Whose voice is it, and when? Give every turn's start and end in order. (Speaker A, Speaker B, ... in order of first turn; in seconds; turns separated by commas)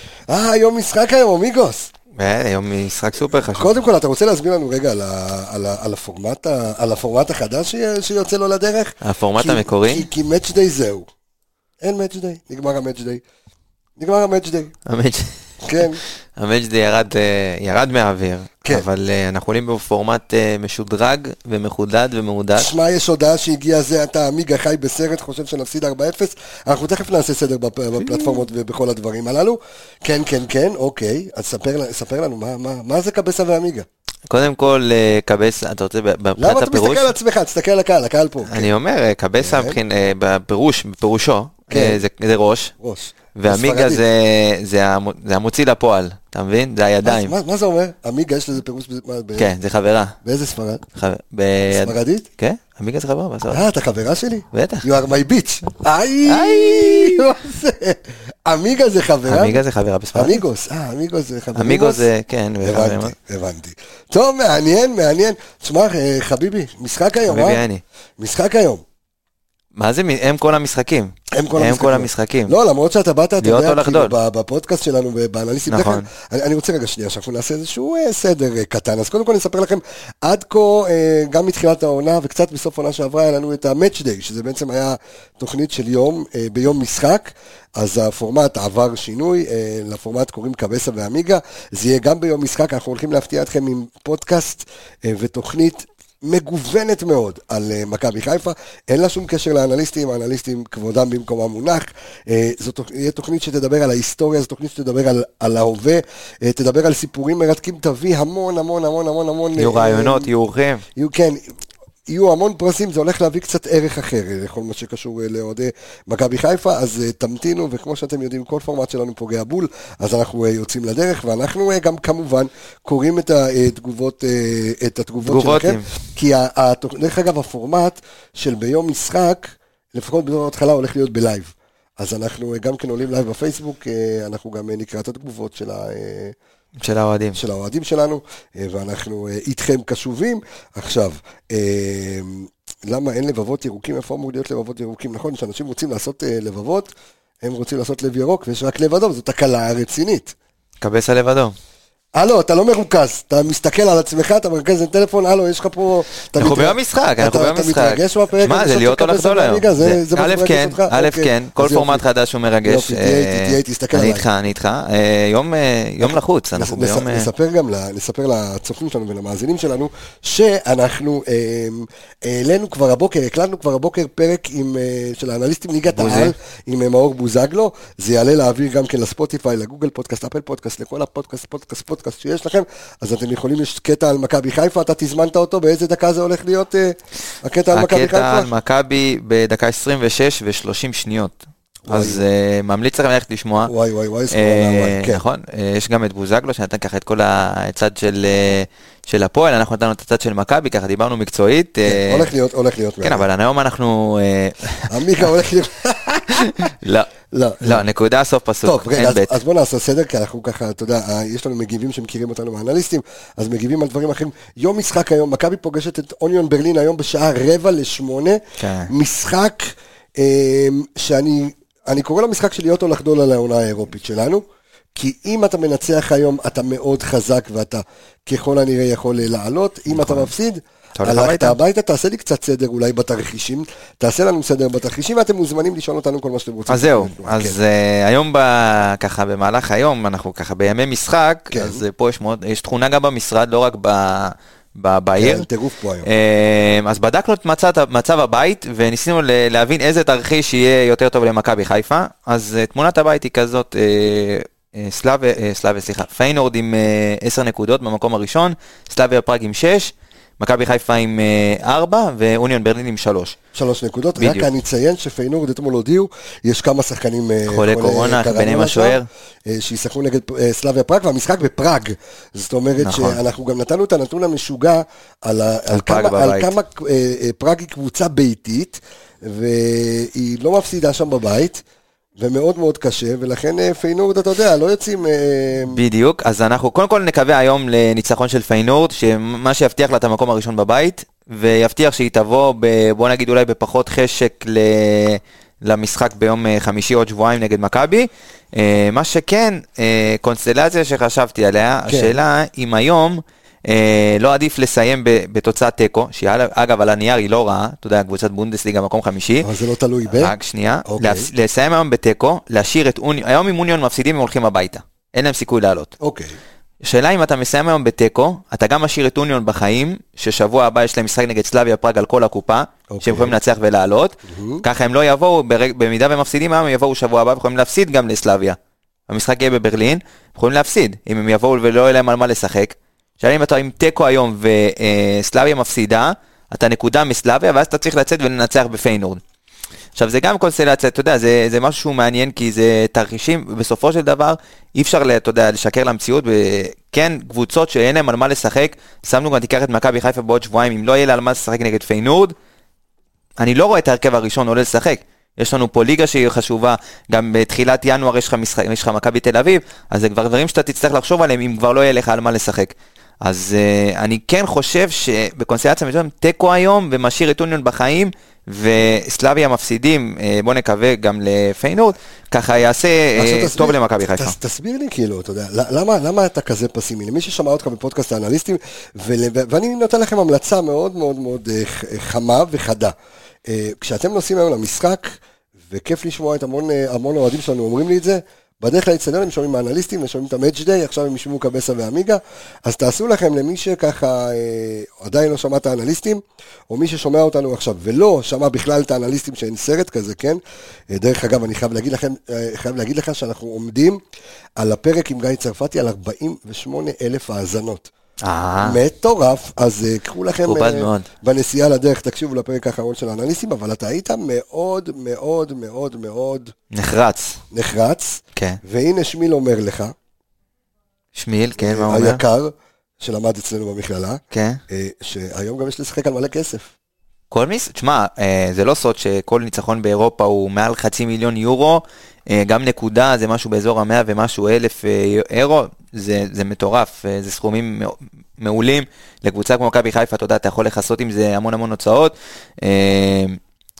Speaker A: 0.3-1.9, Speaker B: 2.1-3.7, Speaker A: 3.4-11.1, Speaker B: 9.0-10.1, Speaker A: 11.8-13.2, Speaker A: 14.0-14.7, Speaker B: 14.8-22.7, Speaker A: 15.6-16.0, Speaker A: 22.5-33.9, Speaker B: 28.0-28.4, Speaker B: 34.3-37.1, Speaker A: 36.4-38.7, Speaker B: 38.4-42.7, Speaker A: 39.4-39.8, Speaker A: 41.7-42.0, Speaker A: 42.8-44.0, Speaker B: 43.3-47.3, Speaker A: 47.0-49.5, Speaker B: 49.4-50.2, Speaker A: 50.2-50.8, Speaker B: 51.0-53.6, Speaker A: 51.7-52.2, Speaker A: 53.5-59.6, Speaker B: 54.5-54.9, Speaker B: 56.2-57.2, Speaker B: 59.2-60.4, Speaker A: 60.1-62.1, Speaker B: 61.5-63.1, Speaker A: 62.6-67.6, Speaker B: 67.2-67.8, Speaker A: 68.2-68.8, Speaker B: 69.8-72.5, Speaker A: 71.3-110.3, Speaker B: 73.4-74.1, Speaker B: 75.7-76.1, Speaker B: 109.6-110.8, Speaker A: 111.0-111.4, Speaker A: 112.1-136.3, Speaker B: 125.2-125.9, Speaker B: 136.8-137.4, Speaker A: 137.3-146.9, Speaker A: 147.4-150.3, Speaker B: 150.8-151.5, Speaker A: 152.2-162.0, Speaker B: 156.3-167.3, Speaker A: 162.6-164.2, Speaker A: 166.0-188.5, Speaker B: 175.9-176.3, Speaker B: 187.7-193.7, Speaker A: 191.9-192.2, Speaker A: 193.6-195.2, Speaker B: 194.3-202.3, Speaker A: 201.8-203.2, Speaker B: 203.0-205.3, Speaker A: 204.9-206.7, Speaker B: 206.3-207.1, Speaker A: 207.3-207.8, Speaker B: 207.6-209.3, Speaker A: 208.6-224.4, Speaker B: 218.6-218.9, Speaker A: 224.9-237.5, Speaker B: 229.9-230.3, Speaker B: 231.0-231.6, Speaker B: 236.7-245.4, Speaker A: 241.5-241.8, Speaker A: 245.2-246.1, Speaker B: 246.0-263.4, Speaker A: 263.5-281.6, Speaker B: 264.2-264.5, Speaker B: 267.5-269.1, Speaker B: 272.8-273.2, Speaker B: 275.7-276.5, Speaker A: 282.2-285.8, Speaker B: 285.7-309.5, Speaker A: 301.9-302.1, Speaker A: 309.4-311.3, Speaker B: 310.1-315.9, Speaker A: 316.0-316.4, Speaker B: 316.8-328.6, Speaker A: 322.9-323.4, Speaker A: 324.2-324.6, Speaker B: 329.1-339.2, Speaker B: 339.9-352.3, Speaker B: 353.4-374.4, Speaker A: 373.1-382.9, Speaker A: 383.5-385.2, Speaker A: 385.7-400.4, Speaker A: 400.9-404.0, Speaker A: 404.6-407.9, Speaker B: 408.2-408.8, Speaker A: 408.6-416.5, Speaker B: 410.4-411.1, Speaker B: 416.7-417.4, Speaker A: 417.5-419.9, Speaker B: 418.3-418.6, Speaker B: 421.1-422.2, Speaker A: 421.6-426.7, Speaker B: 424.3-424.6, Speaker B: 427.3-443.4